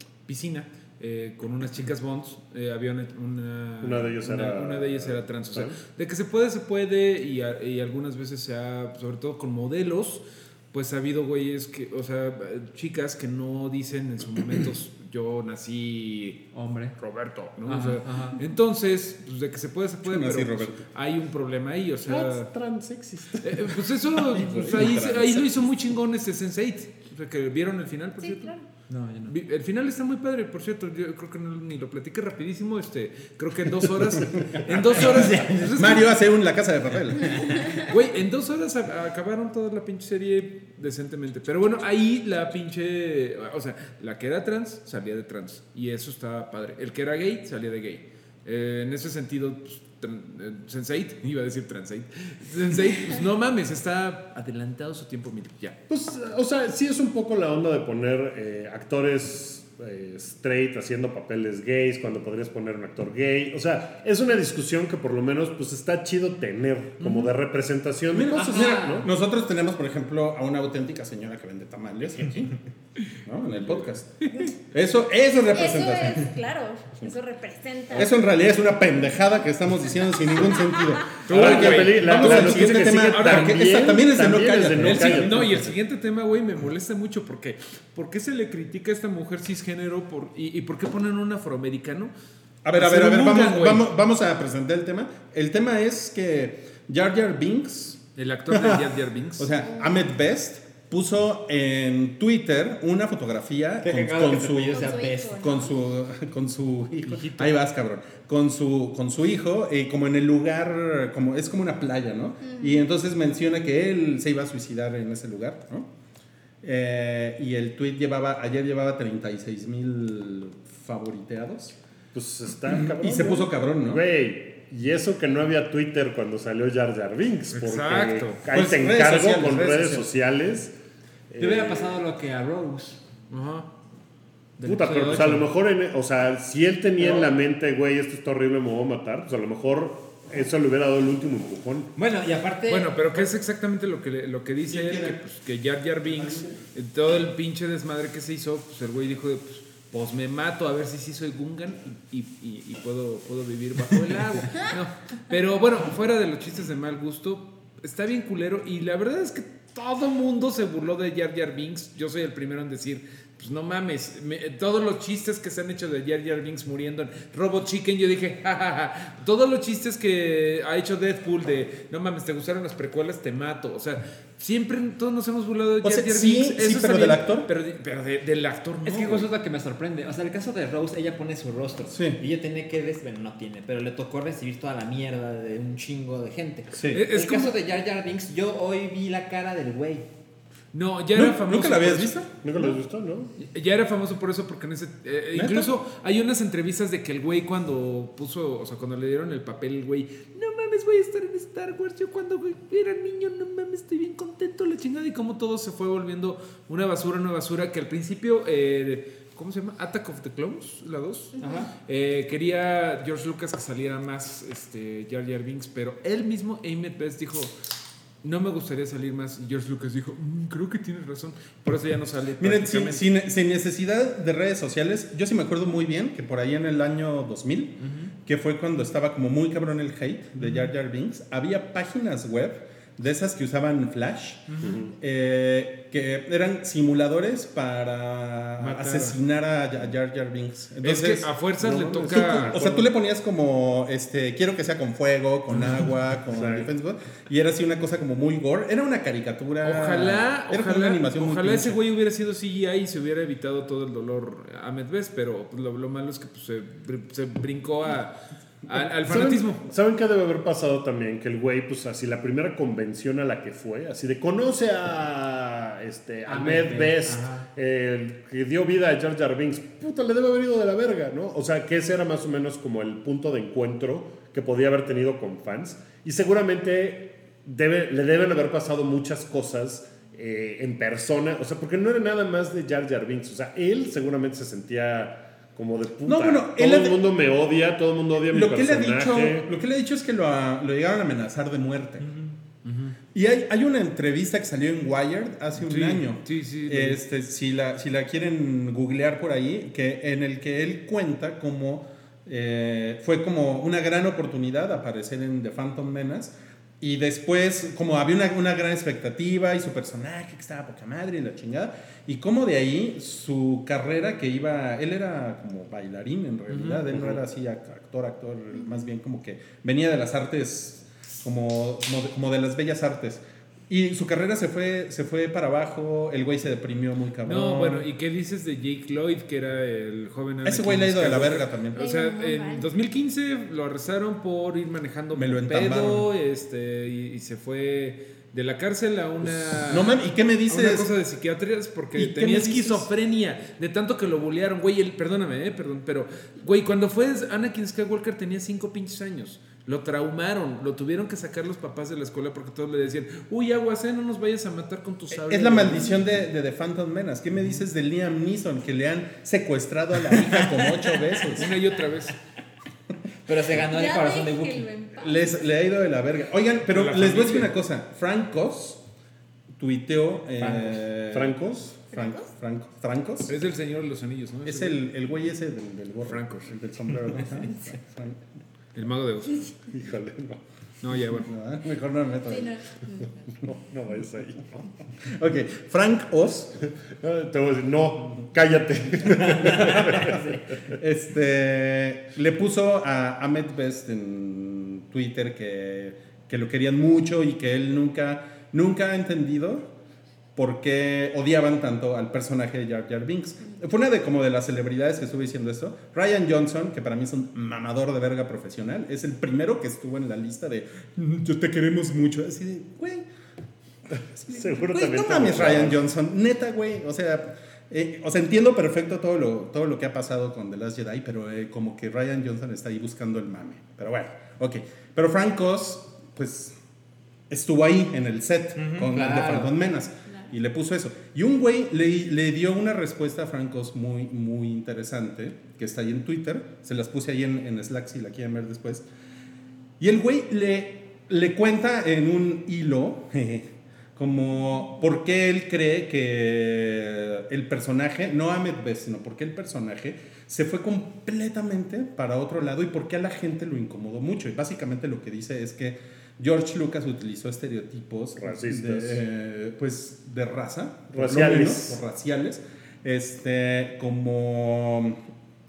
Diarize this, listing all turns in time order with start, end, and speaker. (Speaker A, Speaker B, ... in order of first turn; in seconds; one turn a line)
Speaker A: 0.3-16.4
Speaker B: 3.8-5.8
Speaker C: 16.5-17.0
Speaker A: 17.0-22.5
Speaker C: 17.7-18.4
Speaker D: 20.0-20.8
Speaker B: 22.1-23.9
Speaker A: 23.4-28.6
Speaker D: 24.4-25.5
Speaker E: 28.2-28.6
Speaker C: 28.9-29.3
Speaker A: 29.3-36.2
Speaker D: 35.0-37.6
Speaker C: 35.0-35.7
Speaker A: 37.7-55.8
Speaker B: 55.9-69.1
Speaker A: 67.0-67.3
Speaker D: 68.1-72.6
Speaker C: 68.3-69.1
Speaker D: 73.2-76.3
Speaker A: 74.2-74.5
Speaker E: 75.5-78.1
Speaker D: 77.9-85.7
Speaker A: 81.2-83.9
Speaker B: 81.3-85.7
Speaker A: 84.7-92.1
Speaker D: 92.6-115.9
Speaker A: 92.8-93.9
Speaker A: 98.2-99.5
Speaker E: 99.6-100.0
Speaker C: 103.8-105.4
Speaker E: 104.6-105.8
Speaker E: 112.5-112.8
Speaker D: 116.6-121.8
Speaker B: 122.1-130.7
Speaker D: 122.7-124.0
Speaker A: 127.5-128.4
Speaker D: 128.5-130.1
Speaker B: 131.3-132.0
Speaker C: 131.4-133.0
Speaker A: 133.3-133.7
Speaker C: 134.6-135.5
Speaker B: 134.6-141.9
Speaker C: 142.0-143.1
Speaker A: 142.7-179.3
Speaker D: 144.7-145.2
Speaker D: 146.1-146.6
Speaker D: 175.8-177.5
Speaker C: 178.8-190.1
Speaker D: 181.9-182.2
Speaker D: 186.7-187.0
Speaker A: 186.9-187.6
Speaker A: 190.7-192.2
Speaker D: 191.1-192.3
Speaker B: 192.4-193.3
Speaker A: 193.4-217.5
Speaker D: 195.3-195.7
Speaker E: 211.4-211.7
Speaker C: 211.4-211.7
Speaker A: 218.2-223.0
Speaker D: 222.4-251.8
Speaker C: 227.8-228.1
Speaker A: 230.4-230.7
Speaker B: 234.6-234.9
Speaker A: 238.6-239.2
Speaker A: 240.8-242.6
Speaker B: 242.0-242.9
Speaker B: 246.3-246.7
Speaker A: 249.6-258.1
Speaker A: 258.6-259.6
Speaker B: 259.0-289.5
Speaker C: 266.3-267.5
Speaker D: 286.1-287.0
Speaker D: 288.3-292.1
Speaker A: 292.6-292.9
Speaker D: 293.1-327.9
Speaker A: 295.6-297.0
Speaker A: 316.5-316.9
Speaker B: 316.9-317.2
Speaker A: 327.2-356.0
Speaker D: 330.4-331.9
Speaker E: 331.8-332.7
Speaker D: 335.1-336.1
Speaker D: 339.2-340.9
Speaker D: 341.9-342.9
Speaker D: 355.1-361.6
Speaker A: 361.3-362.2
Speaker C: 363.3-364.7
Speaker E: 363.6-365.2
Speaker D: 365.0-368.8
Speaker A: 366.7-367.6
Speaker D: 369.6-373.4
Speaker B: 371.1-371.7
Speaker E: 371.9-372.3
Speaker A: 373.3-374.8
Speaker D: 374.4-378.2
Speaker A: 376.1-376.5
Speaker A: 378.8-379.5
Speaker B: 379.7-380.4
Speaker A: 380.8-381.3
Speaker D: 381.2-382.6
Speaker E: 382.3-383.1
Speaker B: 383.4-384.7
Speaker D: 385.1-386.5
Speaker B: 386.9-390.2
Speaker D: 389.5-390.1
Speaker C: 389.9-390.4
Speaker D: 390.7-399.7
Speaker D: 400.4-413.1
Speaker D: 414.2-426.6
Speaker B: 414.3-415.8
Speaker D: 427.3-438.9
Speaker C: 428.6-429.6
Speaker D: 439.8-465.0
Speaker B: 458.2-459.0
Speaker B: 460.9-461.8